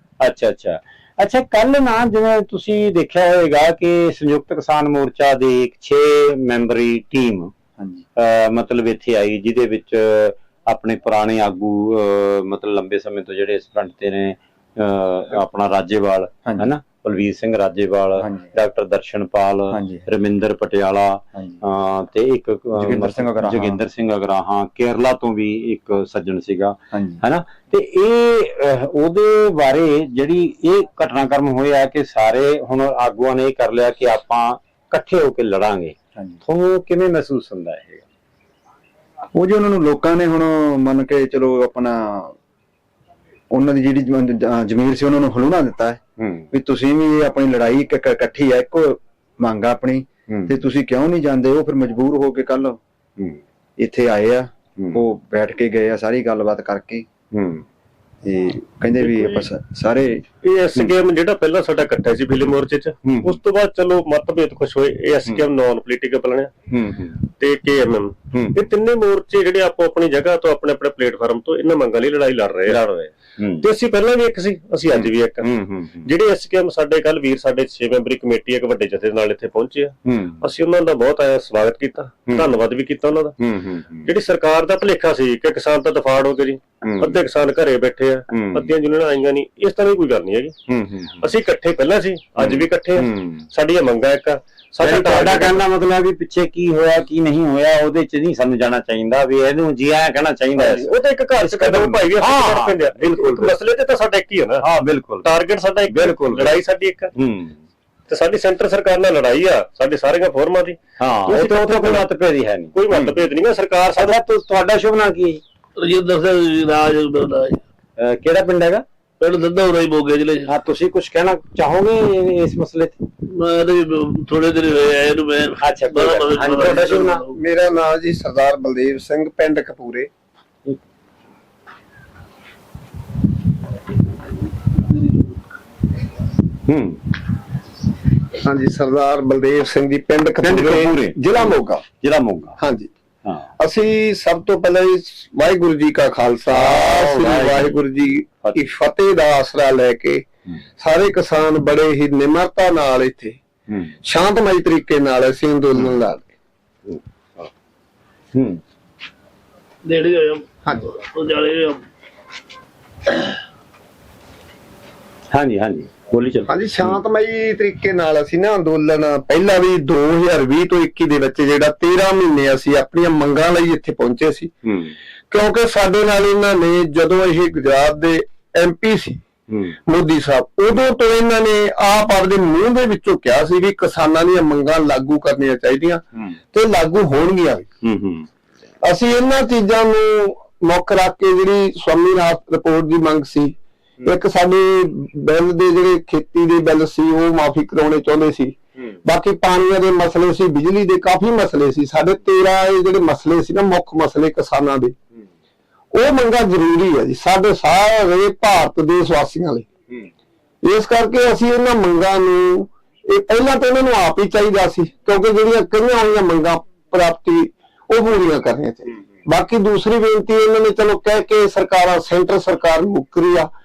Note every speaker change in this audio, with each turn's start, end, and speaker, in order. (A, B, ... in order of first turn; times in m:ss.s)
0:00.2-0:07.5 A
0:07.8-0:08.0 B
0:08.2-0:38.0 A
0:18.2-0:18.4 B
0:19.7-0:20.0 B
0:22.8-0:23.8 B
0:26.9-0:27.2 B
0:39.3-0:42.3 B
0:43.5-0:52.8 B
0:46.2-0:46.5 A
0:53.8-0:57.1 B
0:57.3-0:57.6 A
0:58.2-1:00.2 B
0:59.0-0:59.4 C
1:00.4-1:06.5 C
1:03.0-1:03.4 A
1:06.7-1:07.2 A
1:07.3-1:12.9 C
1:08.3-1:08.6 A
1:12.7-1:13.6 A
1:13.6-1:15.5 C
1:14.9-1:16.1 A
1:16.0-1:23.4 C
1:20.0-1:20.4 A
1:23.4-1:24.1 A
1:24.0-1:30.6 C
1:26.8-1:27.2 A
1:28.3-1:28.7 A
1:30.7-1:31.3 A
1:31.2-1:35.6 C
1:32.4-1:33.5 A
1:34.8-1:43.5 A
1:40.6-1:44.6 C
1:44.6-1:45.3 A
1:45.2-1:47.1 C
1:45.9-1:46.6 A
1:47.1-1:47.6 A
1:48.1-1:52.0 C
1:51.0-1:53.2 A
1:52.7-1:54.2 C
1:54.0-1:55.4 A
1:55.8-1:57.6 D
1:58.0-1:58.8 A
1:59.2-2:00.5 D
2:00.4-2:03.0 A
2:03.3-2:07.3 D
2:05.5-2:07.2 A
2:06.4-2:10.1 E
2:16.6-2:17.0 A
2:18.4-2:21.8 E
2:20.4-2:22.6 A
2:22.6-2:22.9 E
2:23.2-2:23.5 A
2:23.6-2:30.2 E
2:26.5-2:27.7 A
2:30.8-2:33.4 E
2:33.7-2:34.0 A
2:34.0-2:36.3 E
2:36.9-2:37.5 A
2:38.3-2:38.6 A
2:39.8-2:41.8 D
2:45.3-2:46.9 A
2:46.4-2:54.5 E
2:54.6-2:54.9 A
2:55.3-2:59.2 E
2:59.5-2:59.8 A
2:59.8-3:06.0 E
3:06.5-3:07.6 E
3:07.8-3:08.3 A
3:08.8-3:24.9 E
3:25.9-3:29.6 E
3:30.6-3:43.5 E